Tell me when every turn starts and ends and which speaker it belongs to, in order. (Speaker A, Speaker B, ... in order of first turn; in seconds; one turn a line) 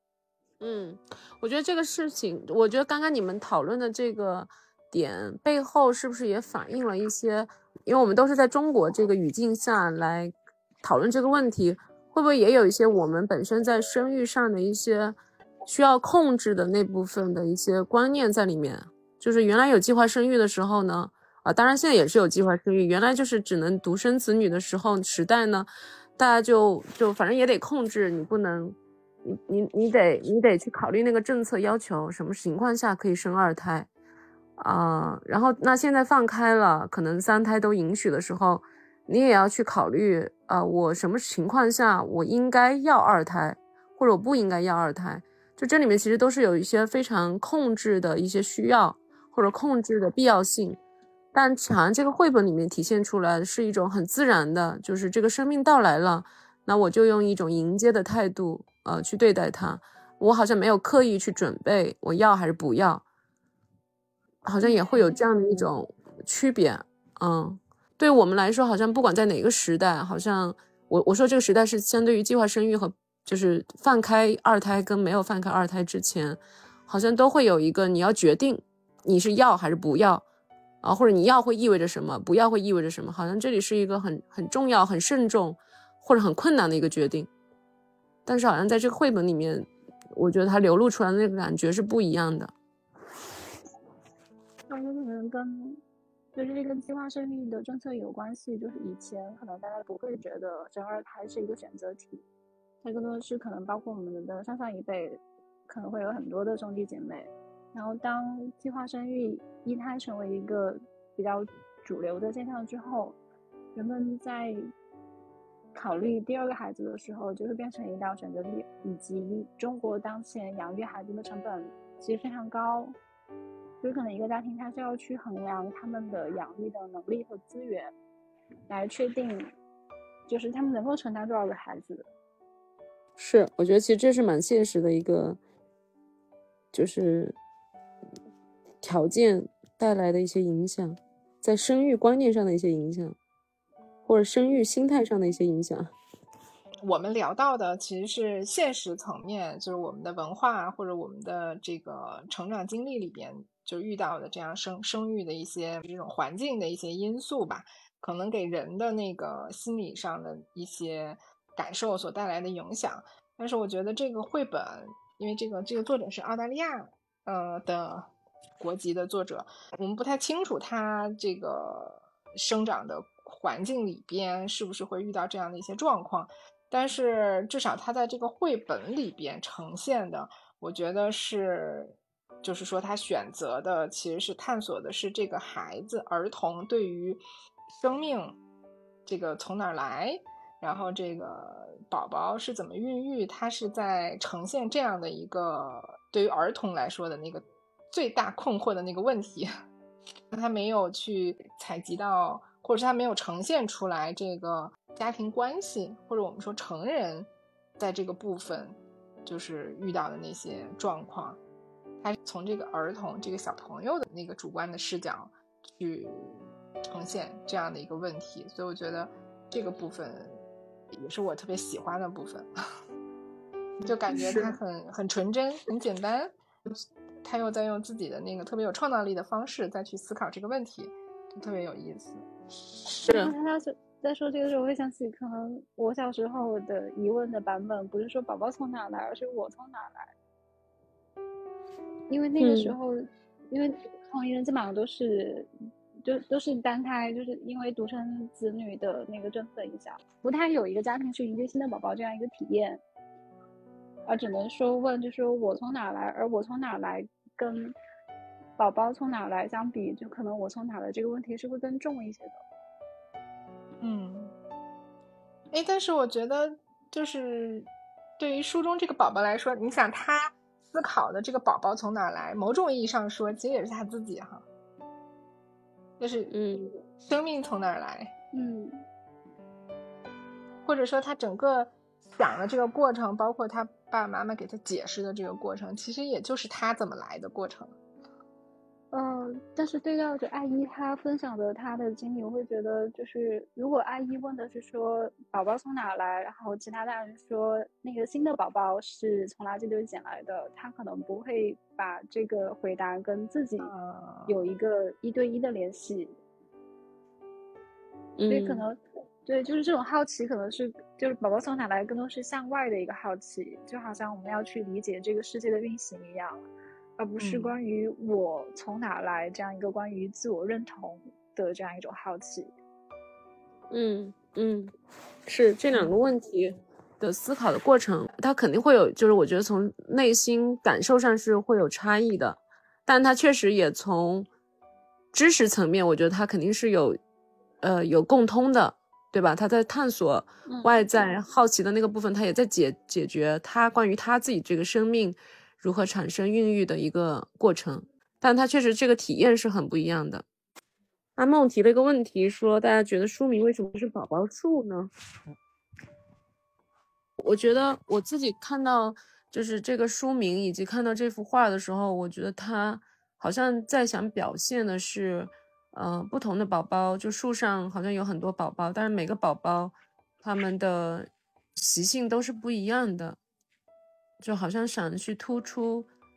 Speaker A: 0.6-33.9
Speaker A: 34.6-50.8
Speaker A: 51.3-63.0
Speaker A: 64.4-80.2
Speaker B: 64.6-65.2
Speaker A: 80.8-87.3
Speaker A: 88.2-92.5
Speaker B: 94.7-95.8
Speaker B: 96.3-102.2
Speaker B: 102.8-113.2
Speaker B: 113.7-114.6
Speaker B: 115.7-123.0
Speaker B: 123.8-127.9
Speaker B: 128.7-129.5
Speaker B: 130.3-132.1
Speaker A: 133.2-135.4
Speaker A: 136.7-137.3
Speaker A: 138.8-143.2
Speaker A: 144.1-145.9
Speaker C: 146.8-168.1
Speaker C: 168.6-188.4
Speaker C: 189.1-199.5
Speaker C: 200.3-211.4
Speaker C: 212.0-222.5
Speaker C: 223.8-232.3
Speaker A: 224.1-224.6
Speaker A: 233.0-233.3
Speaker B: 233.1-240.1
Speaker B: 242.1-245.5
Speaker A: 242.4-242.7
Speaker B: 246.0-252.8
Speaker B: 254.1-257.7
Speaker B: 258.6-262.4
Speaker C: 263.8-264.3
Speaker C: 265.5-274.4
Speaker C: 276.0-276.3
Speaker A: 276.3-276.7
Speaker C: 277.0-278.1
Speaker B: 278.3-278.8
Speaker C: 280.6-287.7
Speaker B: 288.9-303.7
Speaker C: 303.6-304.4
Speaker B: 304.3-306.1
Speaker A: 308.2-308.6
Speaker B: 308.3-316.5
Speaker B: 317.0-322.5
Speaker C: 317.2-317.6
Speaker A: 323.7-324.7
Speaker A: 325.2-334.3
Speaker A: 335.1-337.0
Speaker A: 337.6-350.2
Speaker B: 340.5-340.9
Speaker A: 351.2-354.9
Speaker A: 357.2-373.2
Speaker A: 374.2-375.9